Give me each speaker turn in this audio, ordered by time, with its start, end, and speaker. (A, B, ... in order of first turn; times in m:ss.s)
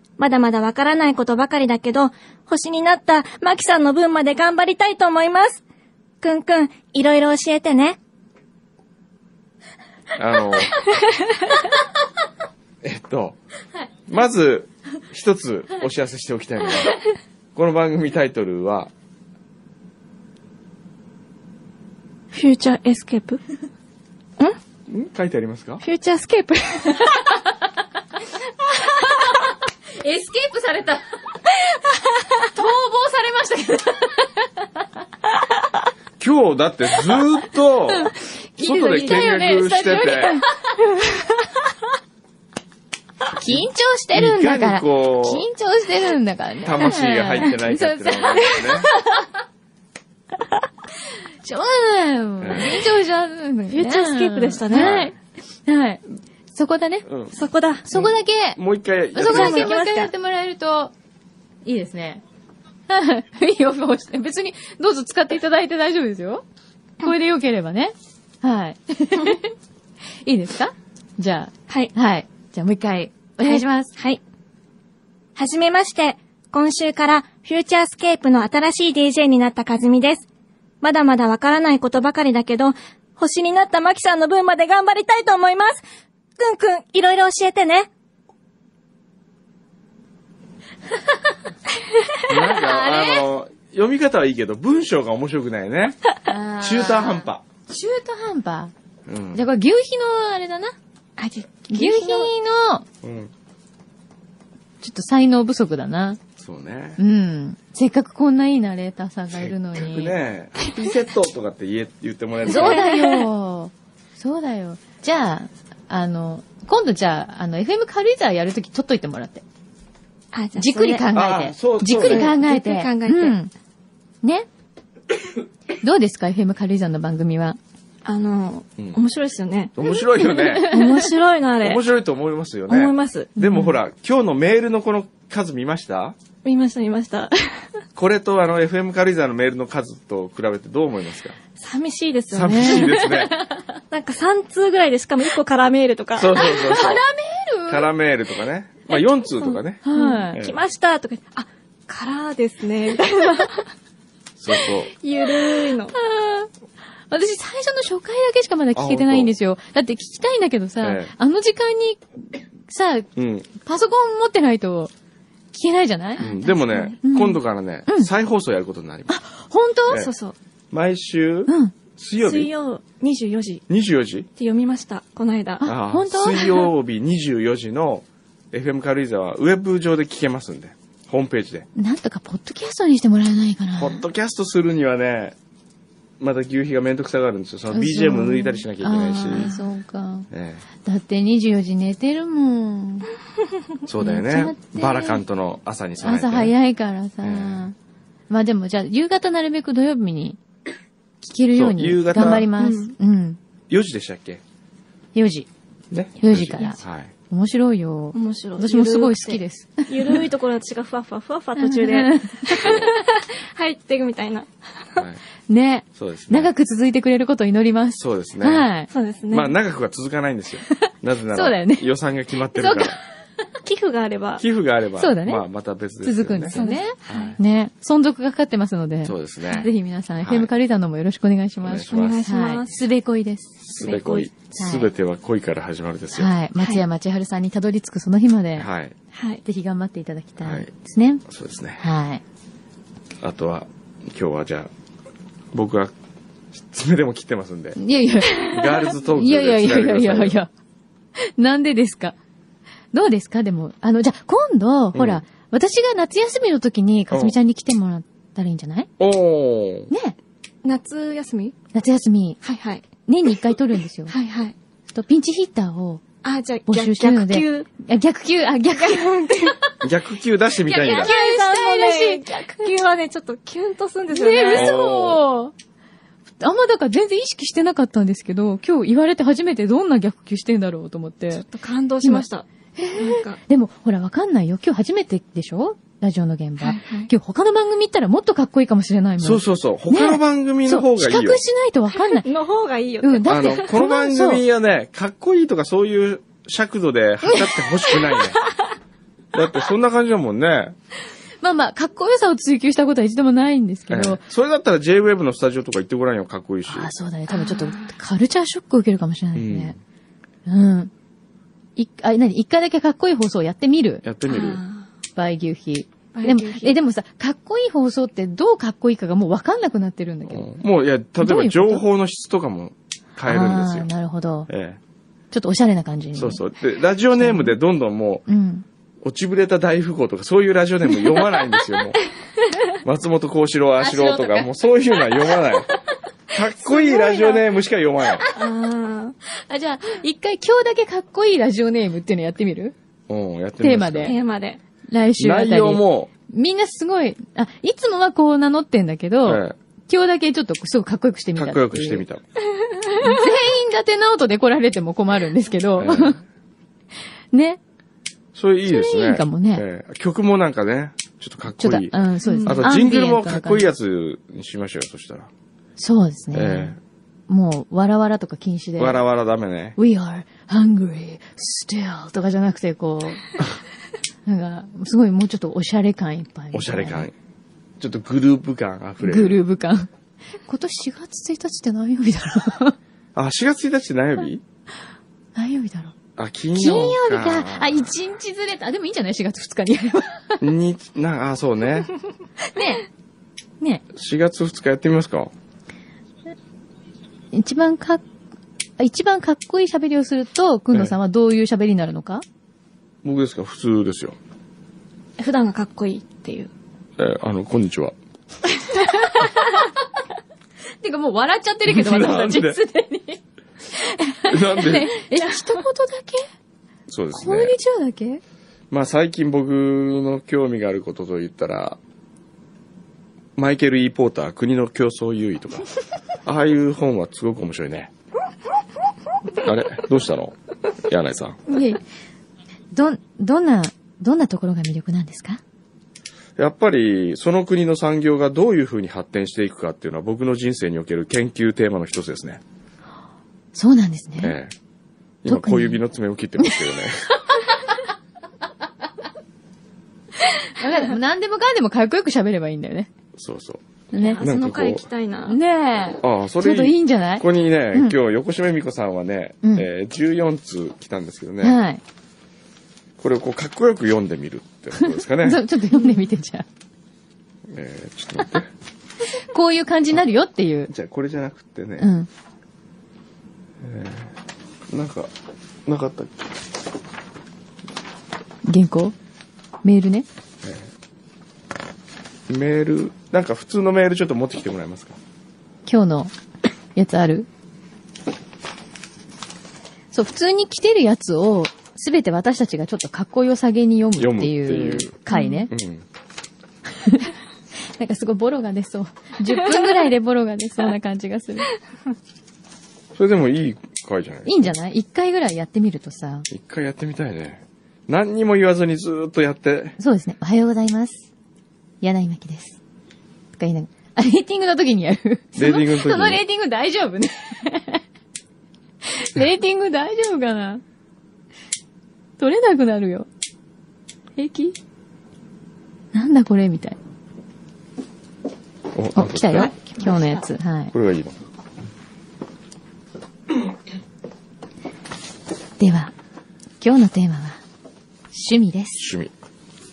0:00.2-0:05.6 A
0:06.2-0:08.0 A
0:10.2-0:10.8 B
0:12.8-0:13.4 B
0:14.1-0:17.0 B
0:17.6-0:18.9 B
0:22.3-0:23.4 A
0:24.9-0:25.8 B
0:25.8-0:27.2 A
0:28.9-0:31.0 C
0:32.4-0:34.6 C
0:36.2-0:40.4 B
0:38.0-0:40.5 C
0:41.0-0:41.3 A
0:43.4-0:48.9 C
0:44.2-0:45.5 B
0:46.6-0:48.9 B
0:48.5-0:48.9 A
0:51.4-0:55.2 C
0:52.4-0:52.9 B
0:53.7-0:55.0 A
0:54.7-0:55.1 B
0:55.7-0:56.0 C
0:56.5-0:57.1 C
0:57.1-0:57.3 B
0:57.4-0:57.9 A
0:57.9-0:58.6 C
0:57.9-0:59.7 B
0:59.1-1:00.9 C
0:59.2-1:00.1 A
1:01.6-1:02.2 C
1:02.9-1:06.4 C
1:07.0-1:09.5 C
1:10.2-1:13.9 C
1:13.4-1:14.2 A
1:15.4-1:20.2 A
1:20.8-1:25.8 A
1:26.4-1:27.9 A
1:32.3-1:36.0 B
1:32.4-1:33.2 C
1:36.3-1:38.7 C
1:36.6-1:37.4 B
1:39.1-1:39.5 B
1:39.3-1:40.8 C
1:41.2-1:42.3 A
1:41.7-1:42.8 C
1:43.0-1:43.3 B
1:44.8-1:46.2 C
1:46.4-1:47.0 B
1:47.0-1:50.2 C
1:49.3-1:52.9 B
1:52.5-1:59.4 C
1:52.5-1:53.2 A
2:00.3-2:01.1 A
2:00.6-2:03.5 C
2:01.1-2:02.4 B
2:01.9-2:03.4 A
2:05.8-2:07.6 C
2:08.0-2:09.9 A
2:09.8-2:10.7 B
2:10.2-2:11.1 C
2:10.6-2:11.8 A
2:11.6-2:16.2 B
2:12.7-2:13.3 A
2:13.4-2:13.8 C
2:16.4-2:17.6 A
2:18.0-2:21.4 B
2:21.6-2:23.2 A
2:22.3-2:23.4 B
2:22.5-2:23.6 C
2:23.9-2:26.4 A
2:26.2-2:27.0 B
2:26.4-2:27.9 C
2:27.7-2:30.6 B
2:29.4-2:33.7 A
2:29.8-2:30.4 C
2:34.4-2:34.9 B
2:34.5-2:36.0 A
2:35.9-2:36.5 C
2:37.1-2:42.0 C
2:38.8-2:39.3 B
2:40.8-2:41.1 B
2:42.7-2:44.9 C
2:43.2-2:43.5 B
2:45.5-2:46.3 C
2:46.2-2:47.0 A
2:46.2-2:49.1 B
2:47.0-2:48.1 C
2:49.1-2:50.1 C
2:49.9-2:50.4 A
2:50.7-2:52.5 B
2:51.5-2:51.7 C
2:52.2-2:53.6 A
2:53.7-2:54.3 B
2:54.4-2:55.7 A
2:55.6-2:56.7 C
2:55.6-3:01.7 B
3:01.8-3:04.0 C
3:03.8-3:05.4 B
3:06.2-3:09.5 B
3:07.7-3:10.3 C
3:09.4-3:09.6 A
3:10.3-3:10.6 B
3:10.8-3:13.1 C
3:13.9-3:16.5 B
3:14.0-3:15.2 C
3:16.0-3:17.8 C
3:17.2-3:17.7 B
3:18.3-3:20.4 C
3:21.2-3:23.4 C
3:21.5-3:22.5 B
3:22.2-3:22.9 A
3:23.7-3:24.4 B
3:25.2-3:25.5 C
3:25.9-3:27.1 B
3:26.2-3:30.2 C
3:28.1-3:35.0 A
3:31.6-3:32.7 C
3:32.6-3:32.9 B
3:35.5-3:38.9 C
3:36.0-3:36.5 B
3:38.0-3:38.7 B
3:38.9-3:39.6 A
3:39.3-3:43.0 B
3:41.3-3:41.9 C
3:42.6-3:43.0 C
3:43.6-3:44.4 A
3:44.4-3:47.4 B
3:45.0-3:45.4 C
3:46.0-3:54.0 C
3:46.5-3:47.4 A
3:49.0-3:49.7 B
3:50.2-3:50.5 B
3:51.6-3:52.2 B
3:51.9-3:52.8 A
3:53.6-3:56.3 B
3:53.8-3:54.3 A
3:54.5-3:54.9 C
3:56.2-3:58.7 C
3:58.6-3:59.0 B
3:59.1-3:59.4 A
3:59.4-4:01.2 C
4:00.4-4:00.7 B
4:01.3-4:01.8 B
4:01.8-4:02.2 C
4:03.2-4:04.7 B
4:05.5-4:05.9 B
4:06.5-4:07.8 B
4:07.8-4:10.5 C
4:08.3-4:10.4 B
4:11.2-4:12.2 C
4:12.9-4:18.9 C
4:14.9-4:15.2 B
4:19.0-4:19.9 B
4:19.9-4:20.2 C
4:20.6-4:21.6 A
4:21.7-4:22.4 C
4:22.4-4:22.8 A
4:23.1-4:24.1 C
4:24.1-4:24.6 A
4:24.9-4:26.0 C
4:26.2-4:27.7 A
4:26.7-4:29.8 C
4:28.7-4:29.6 A
4:29.8-4:31.1 B
4:30.7-4:34.7 A
4:30.7-4:32.7 C
4:34.1-4:35.5 C
4:34.5-4:35.2 B
4:36.4-4:41.4 C
4:41.3-4:42.4 A
4:42.0-4:52.3 C
4:43.0-4:43.4 A
4:46.6-4:47.1 A
4:49.2-4:51.4 B
4:52.2-4:53.2 A
4:53.0-4:54.4 C
4:53.3-4:58.4 B
4:59.3-5:00.8 B
5:01.4-5:04.2 C
5:03.9-5:06.9 B
5:06.7-5:09.8 C
5:07.3-5:07.9 A
5:09.4-5:09.8 B
5:10.5-5:10.9 C
5:11.8-5:14.0 C
5:14.0-5:14.6 B
5:14.3-5:14.9 A
5:15.2-5:20.5 C
5:16.1-5:16.8 A
5:20.3-5:23.9 B
5:21.2-5:21.9 C
5:23.3-5:24.5 C
5:24.5-5:24.8 B
5:25.3-5:26.4 C
5:26.2-5:28.3 B
5:27.2-5:27.6 C
5:28.3-5:28.7 C
5:29.0-5:32.0 B
5:32.8-5:35.7 B
5:33.8-5:34.5 C
5:36.3-5:38.2 B
5:36.6-5:37.4 A
5:38.4-5:39.2 A
5:39.4-5:42.8 C
5:43.1-5:44.2 B
5:43.6-5:44.2 C
5:44.0-5:44.6 A
5:44.9-5:52.0 C
5:45.2-5:46.1 B
5:49.2-5:49.6 B
5:51.4-5:52.2 B
5:52.6-5:53.2 A
5:53.0-5:56.2 C
5:55.8-5:56.2 B
5:57.3-5:57.6 C
5:58.3-6:05.3 B
5:58.7-5:59.6 C
6:01.6-6:03.7 C
6:02.2-6:02.6 A
6:05.8-6:06.8 C
6:06.3-6:06.8 B
6:07.3-6:09.0 C
6:08.8-6:09.8 B
6:09.8-6:13.4 C
6:14.3-6:17.1 C
6:16.5-6:17.1 B
6:17.8-6:19.4 B
6:19.0-6:19.9 C
6:20.5-6:22.8 C
6:23.2-6:24.4 B
6:25.4-6:26.0 C
6:26.2-6:27.9 B
6:26.5-6:30.4 C
6:30.4-6:31.9 B
6:32.5-6:32.9 C
6:33.9-6:35.3 B
6:37.3-6:38.0 C
6:38.8-6:42.2 C
6:43.0-6:44.2 B
6:45.2-6:46.5 A
6:47.0-6:48.0 B
6:48.6-6:49.7 A
6:49.2-6:49.5 C
6:50.8-6:53.2 C
6:51.7-6:52.6 B
6:53.7-6:56.3 C
6:54.3-6:54.9 B
6:56.9-6:57.6 B
6:57.1-6:58.2 C
6:58.7-7:01.8 B
7:03.4-7:05.7 B
7:06.2-7:07.9 B
7:09.4-7:10.3 B
7:10.8-7:11.4 B
7:11.5-7:11.8 C
7:12.7-7:15.4 C
7:16.4-7:22.4 B
7:23.5-7:24.4 C
7:24.2-7:24.5 B
7:25.2-7:27.2 B
7:25.3-7:25.8 C
7:26.4-7:26.8 C
7:27.3-7:27.7 C
7:30.2-7:32.9 C
7:33.2-7:33.6 B
7:33.9-7:34.2 C
7:34.0-7:35.4 A
7:34.2-7:34.8 B
7:35.3-7:37.9 C
7:36.0-7:41.6 B
7:39.4-7:39.7 C
7:41.4-7:41.8 C
7:43.0-7:45.4 B
7:44.8-7:46.5 C
7:47.5-7:48.5 B
7:49.2-7:50.7 C
7:50.7-7:51.9 B
7:51.8-7:52.1 C
7:53.6-7:54.1 B
7:54.7-7:55.1 B
7:55.7-7:56.3 B
7:58.5-7:59.0 C
7:59.6-8:00.1 C
8:00.4-8:00.7 B
8:02.3-8:05.0 B
8:05.7-8:06.1 C
8:06.8-8:07.3 C
8:09.9-8:15.5 C
8:14.0-8:14.9 B
8:15.1-8:15.4 A
8:15.5-8:15.8 B
8:16.8-8:17.1 C
8:17.8-8:21.5 C
8:23.0-8:24.5 B
8:24.2-8:26.3 C
8:26.3-8:29.8 B
8:29.8-8:31.0 C
8:31.8-8:32.6 C
8:33.3-8:37.8 C
8:35.4-8:36.2 B
8:38.9-8:40.6 C
8:42.2-8:43.1 C
8:44.2-8:44.6 C
8:45.9-8:46.8 C
8:48.7-8:49.5 B
8:49.0-8:50.7 C
8:49.7-8:50.2 A
8:50.7-8:51.2 B
8:55.6-8:55.9 C
8:56.6-8:57.4 C
8:58.1-8:58.8 C
8:58.8-8:59.1 B